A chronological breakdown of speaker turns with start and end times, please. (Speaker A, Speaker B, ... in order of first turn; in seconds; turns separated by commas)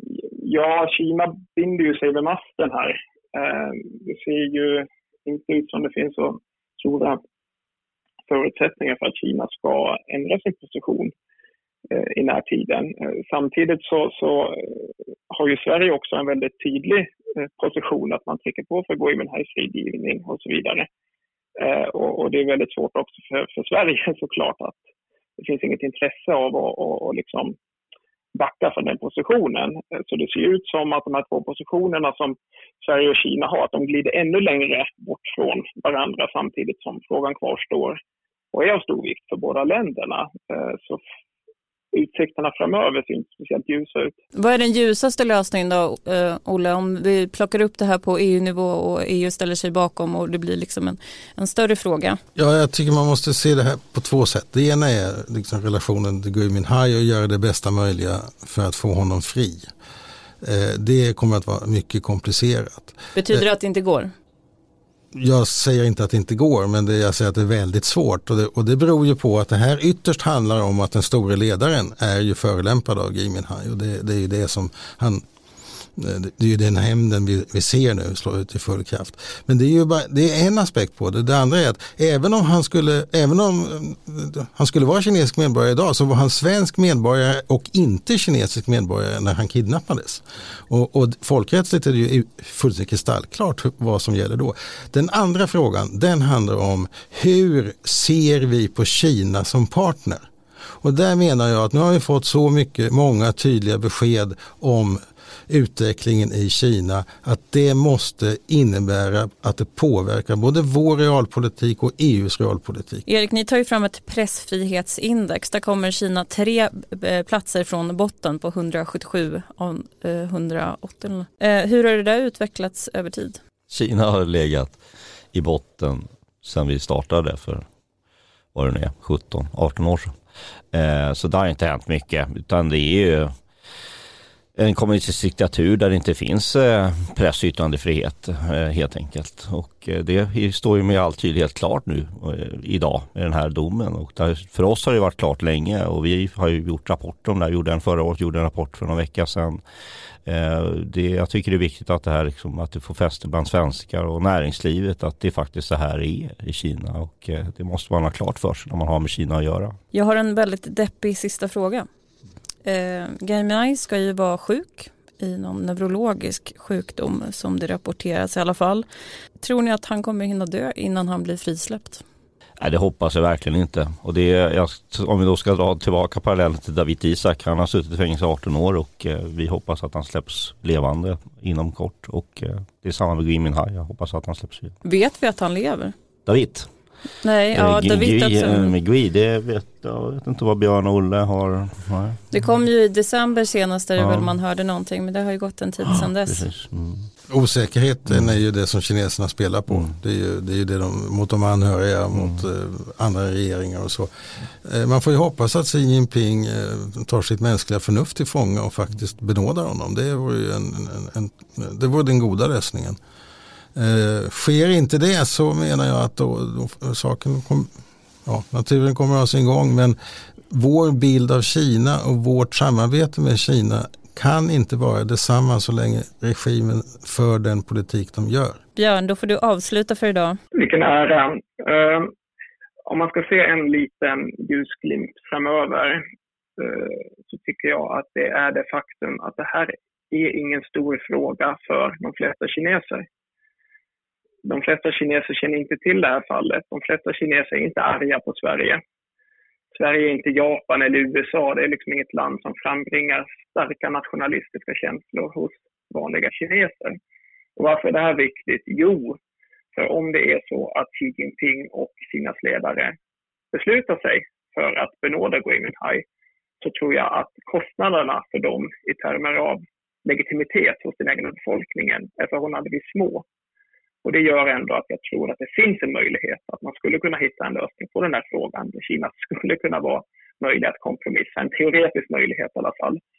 Speaker A: 0.4-7.2, Speaker A: 8.3-11.1, Speaker A: 11.9-20.9, Speaker A: 21.6-24.8, Speaker A: 25.4-27.6, Speaker A: 28.3-38.0, Speaker A: 38.5-41.0, Speaker A: 41.9-44.2, Speaker B: 44.4-52.2, Speaker C: 52.4-59.7, Speaker C: 60.4-63.4, Speaker B: 63.1-64.1, Speaker C: 65.1-75.2, Speaker C: 76.0-100.3, Speaker C: 100.8-113.0, Speaker B: 113.1-123.4, Speaker D: 123.7-124.8, Speaker D: 125.3-127.7, Speaker D: 128.5-130.1, Speaker D: 130.7-133.3, Speaker D: 134.6-149.6, Speaker D: 150.3-159.8, Speaker B: 159.9-161.9, Speaker B: 162.7-168.8, Speaker B: 169.4-172.0, Speaker D: 172.6-184.8, Speaker B: 184.8-185.9, Speaker D: 186.3-186.7, Speaker B: 187.2-188.7, Speaker D: 187.6-192.2, Speaker B: 192.3-196.5, Speaker D: 194.0-194.3, Speaker D: 195.9-197.1, Speaker C: 197.3-213.0, Speaker C: 213.8-217.7, Speaker C: 218.3-220.0, Speaker C: 220.5-228.6, Speaker B: 228.8-230.4, Speaker A: 230.6-232.1, Speaker A: 232.9-236.0, Speaker A: 236.6-243.1, Speaker A: 244.4-248.8, Speaker A: 249.7-257.0, Speaker A: 257.6-259.2, Speaker A: 259.7-262.9, Speaker A: 263.5-266.0, Speaker A: 266.6-273.2, Speaker A: 274.0-283.0